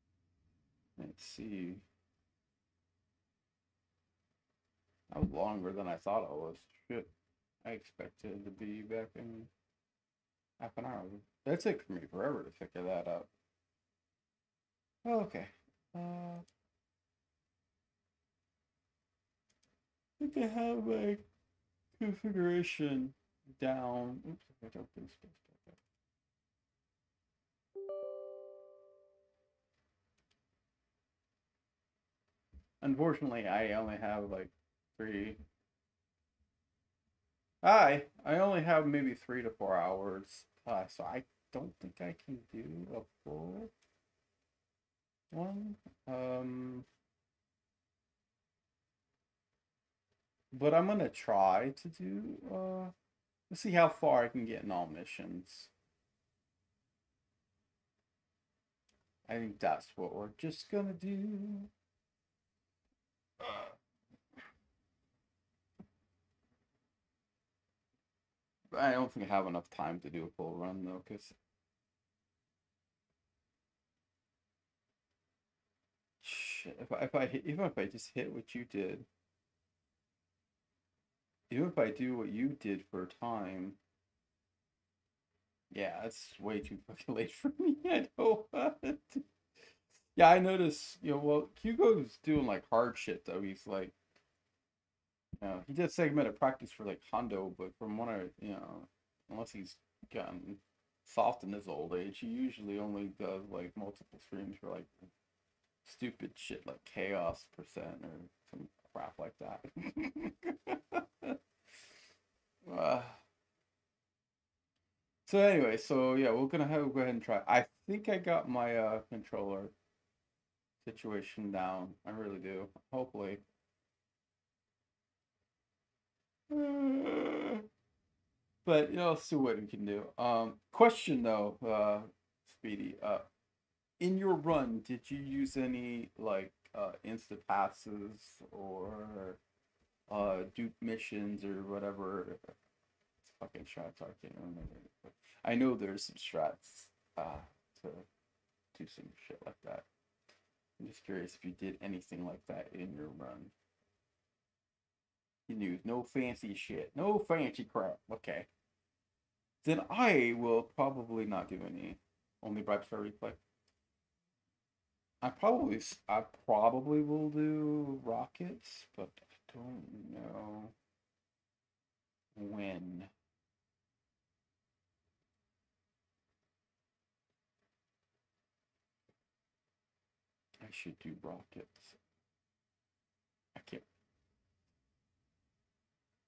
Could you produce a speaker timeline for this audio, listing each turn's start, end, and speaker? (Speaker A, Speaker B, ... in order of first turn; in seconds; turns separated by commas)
Speaker A: 1.0-1.8, Speaker A: 5.1-7.1, Speaker A: 7.6-9.5, Speaker A: 10.6-13.3, Speaker A: 15.0-16.4, Speaker A: 20.2-21.2, Speaker A: 22.0-25.8, Speaker A: 32.8-35.4, Speaker A: 37.6-43.7, Speaker A: 45.3-46.9, Speaker A: 50.5-52.9, Speaker A: 53.5-55.7, Speaker A: 59.3-61.7, Speaker A: 63.4-63.8, Speaker A: 68.7-71.3, Speaker A: 76.2-79.1, Speaker A: 81.5-83.8, Speaker A: 85.7-89.2, Speaker A: 90.1-93.9, Speaker A: 95.4-104.9, Speaker A: 105.8-111.4, Speaker A: 112.7-113.2, Speaker A: 115.2-119.7, Speaker A: 120.8-123.4, Speaker A: 126.5-127.7, Speaker A: 128.6-133.3, Speaker A: 134.0-139.4, Speaker A: 140.1-142.5, Speaker A: 143.2-148.1, Speaker A: 148.7-149.9, Speaker A: 150.8-153.5, Speaker A: 155.5-158.5, Speaker A: 159.6-163.4, Speaker A: 165.2-170.7, Speaker A: 172.3-173.1, Speaker A: 180.6-182.0, Speaker A: 183.5-183.8